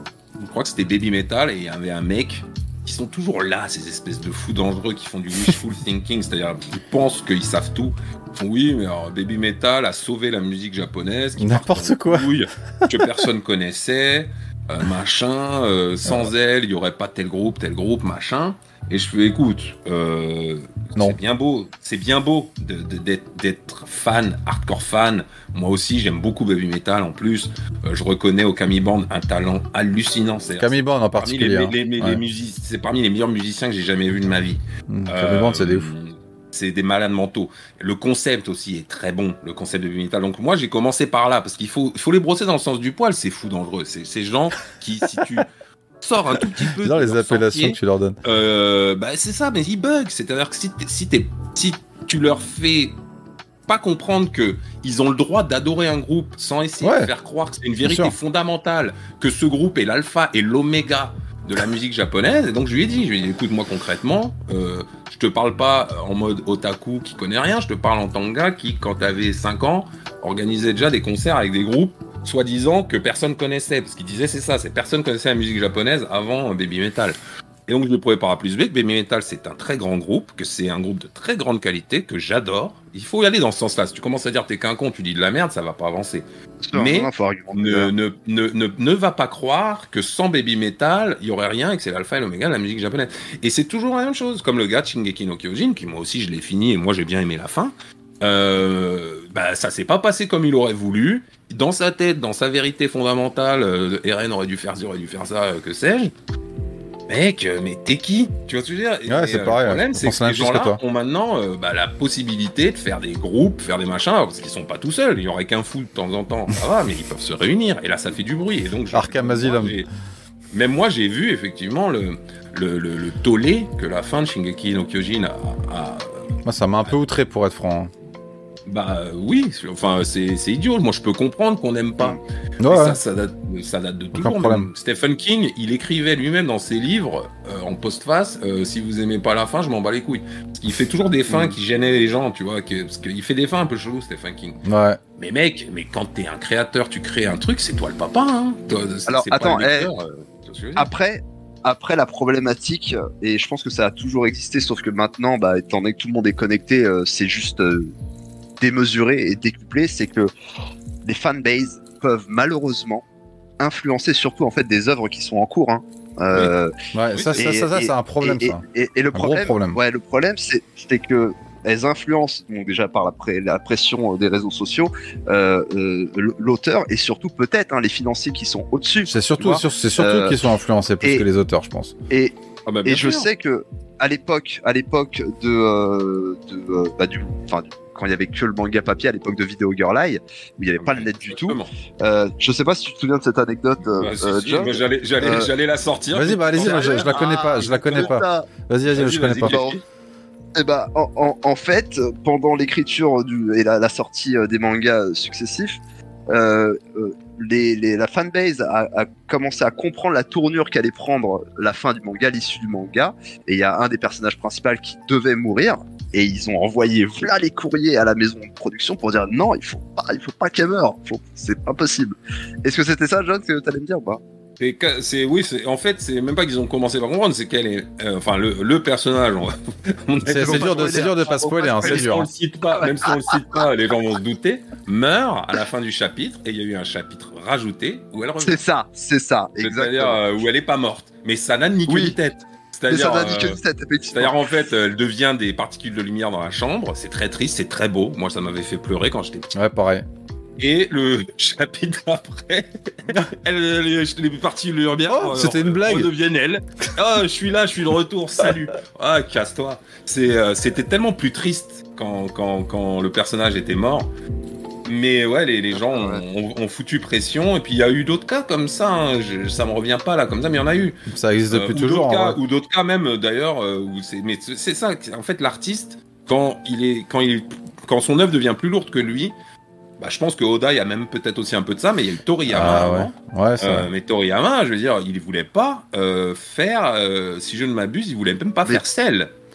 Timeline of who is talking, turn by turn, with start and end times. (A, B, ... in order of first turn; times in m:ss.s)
0:00.4-0:45.5 A
0:11.4-0:13.2 B
0:16.1-0:16.3 B
0:30.6-0:32.2 B
0:34.9-0:35.9 B
0:46.0-0:53.0 A
0:46.8-0:48.2 B
0:53.7-1:46.1 A
0:56.8-0:57.1 B
0:57.8-0:58.2 B
1:26.6-1:27.9 C
1:47.1-1:59.9 A
1:49.1-1:50.8 B
1:58.9-1:59.8 B
2:00.5-2:06.2 A
2:06.4-2:07.9 B
2:08.7-2:24.6 A
2:12.6-2:13.0 B
2:14.1-2:14.7 B
2:24.6-2:25.0 B
2:25.2-2:30.9 A
2:29.1-2:29.9 C
2:30.8-2:37.9 C
2:38.6-2:40.3 C
2:41.0-2:43.0 C
2:43.6-2:46.7 C
2:46.9-2:48.6 B
2:47.1-2:47.4 A
2:47.4-3:00.4 C
2:49.1-2:49.8 B
2:59.1-3:02.0 B
3:02.1-3:15.5 C
3:02.7-3:03.3 A
3:10.8-3:11.7 A
3:14.0-3:18.2 A
3:16.1-3:19.6 B
3:16.6-3:18.5 C
3:18.8-3:19.8 A
3:19.4-3:19.8 C
3:20.6-3:25.8 C
3:26.3-3:44.2 C
3:44.6-3:51.1 A
3:50.3-3:52.3 B
3:50.4-3:52.1 C
3:51.8-3:58.6 A
3:52.8-3:53.2 C
3:58.4-4:00.2 C
3:59.6-4:03.6 A
4:01.9-4:02.2 C
4:02.9-4:04.6 C
4:04.1-4:09.5 A
4:09.5-4:10.1 B
4:10.6-4:24.1 A
4:15.1-4:16.1 B
4:24.8-4:31.0 A
4:25.8-4:26.2 C
4:31.1-4:32.4 B
4:31.5-4:39.4 A
4:40.0-4:49.3 A
4:42.5-4:43.9 B